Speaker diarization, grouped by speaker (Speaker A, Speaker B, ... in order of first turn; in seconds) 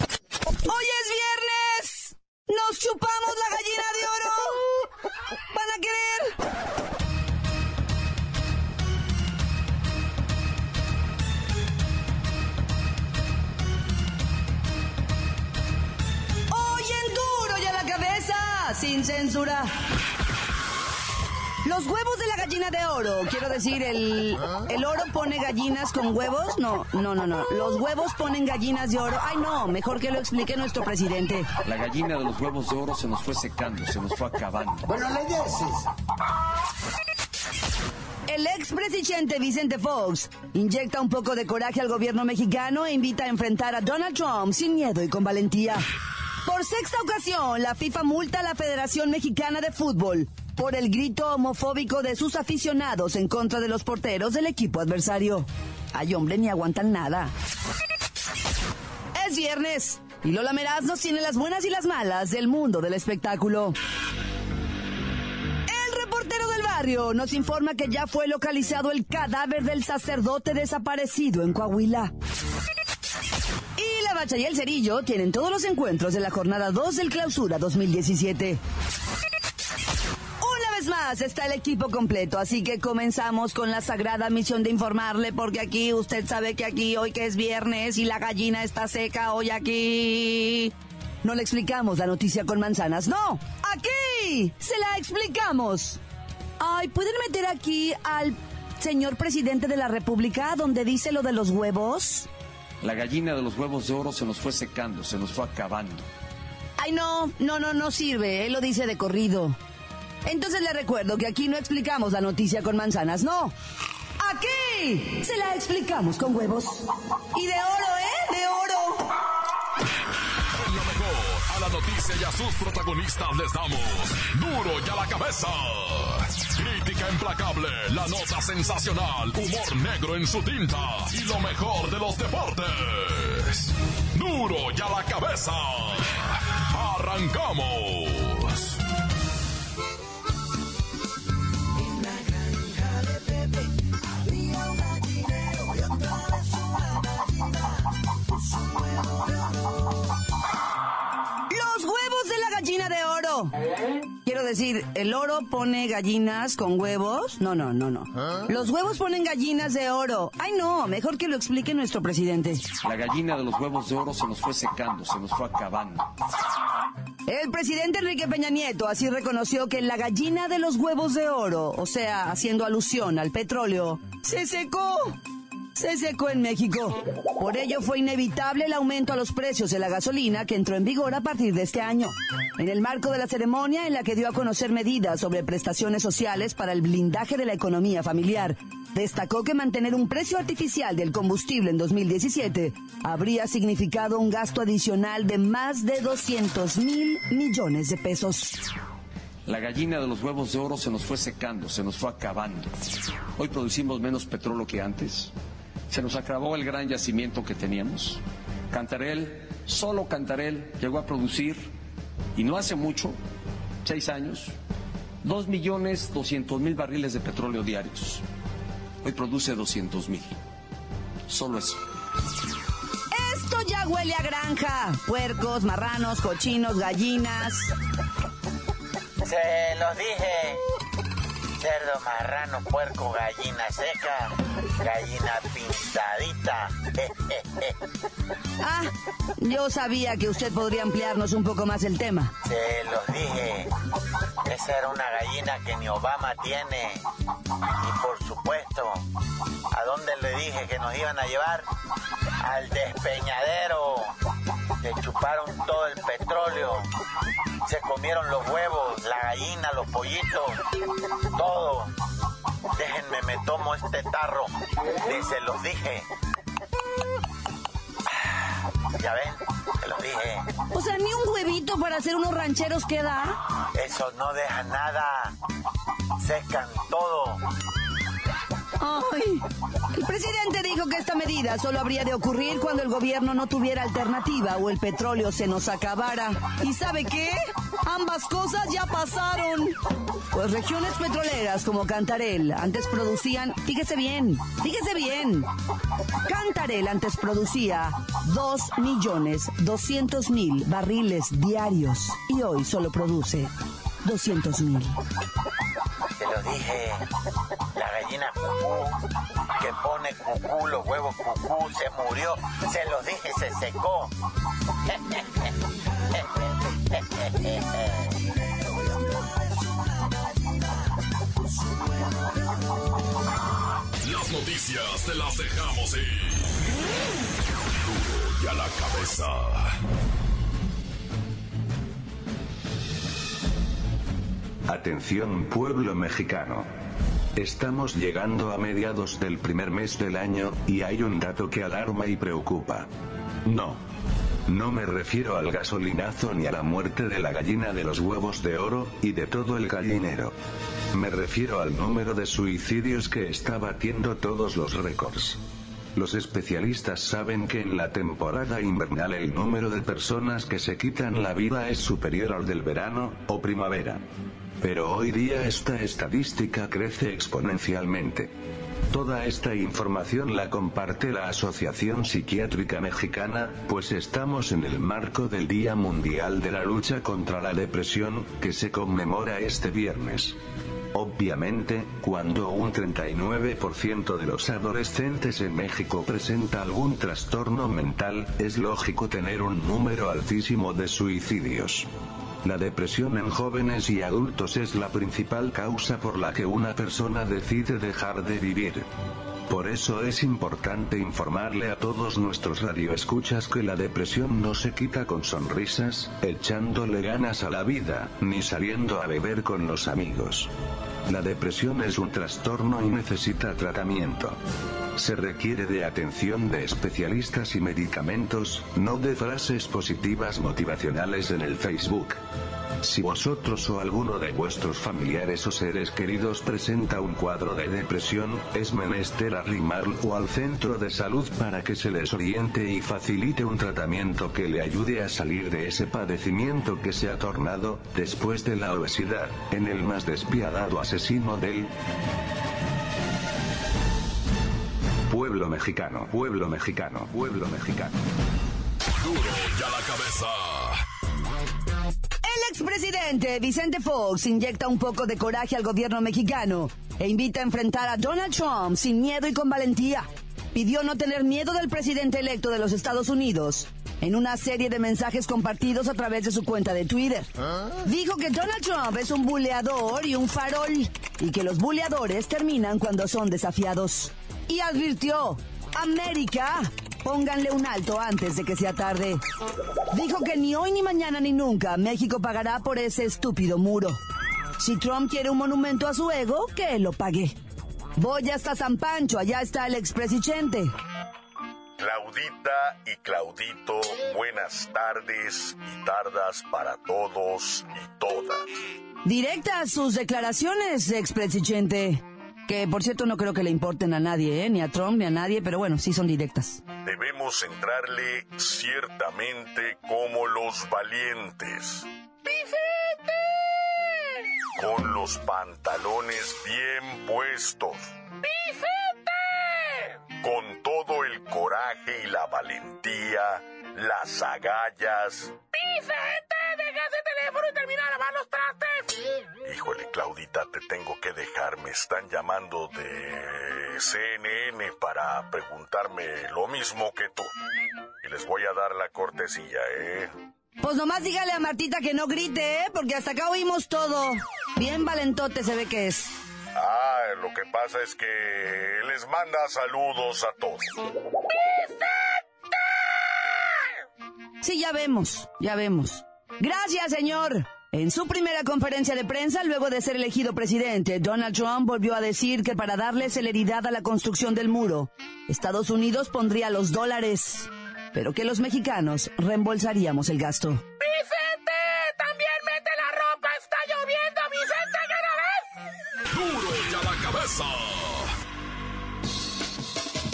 Speaker A: 0.7-4.8, 5.5-6.3, 16.5-19.7, 21.6-31.5, 38.3-45.8, 46.4-57.3, 59.1-63.8, 65.7-72.1, 73.8-78.6, 80.4-90.7, 91.2-96.0, 96.6-102.3, 106.8-109.6, 110.2-113.5, 114.2-119.0, 151.5-153.5, 154.2-162.6, 167.3-175.2, 175.8-198.6, 223.1-227.7, 238.6-242.3, 270.7-273.4, 278.8-289.8, 290.3-295.5, 296.2-303.5, 304.0-304.9, 452.2-479.2, 479.9-484.0, 484.6-487.3, 488.0-490.7, 499.0-506.6, 540.6-546.1, 554.4-570.6
Speaker B: 31.6-35.4, 102.8-106.0, 162.8-166.1, 199.4-202.7, 203.3-205.3, 205.9-211.7, 212.3-213.2, 213.8-214.5, 215.2-218.2, 219.0-220.3, 221.3-221.8
Speaker C: 120.5-138.8, 324.0-326.5, 327.8-329.8, 449.0-450.8, 576.1-578.1
Speaker D: 229.2-230.6, 231.6-237.7, 242.4-243.7, 244.4-247.0, 247.8-249.0, 249.7-251.7, 252.4-254.1, 254.8-256.8, 257.6-260.6, 261.3-261.9, 262.7-266.1, 268.9-270.4, 273.7-275.3, 276.2-277.4, 306.2-307.1, 307.7-309.0, 309.6-314.1, 316.1-317.6
Speaker E: 334.7-336.7, 337.4-342.9, 343.4-343.8, 344.5-350.3, 350.9-355.4, 355.9-364.0, 364.6-368.3, 368.9-380.4, 380.9-391.9, 392.4-398.9, 399.5-410.5, 411.1-414.4, 414.9-422.2, 422.8-441.7, 445.1-448.0
Speaker F: 491.8-498.4, 506.8-511.9, 514.6-517.8, 520.2-525.4, 529.4-537.3, 538.0-540.1, 546.5-550.7
Speaker G: 525.7-528.8, 570.9-575.2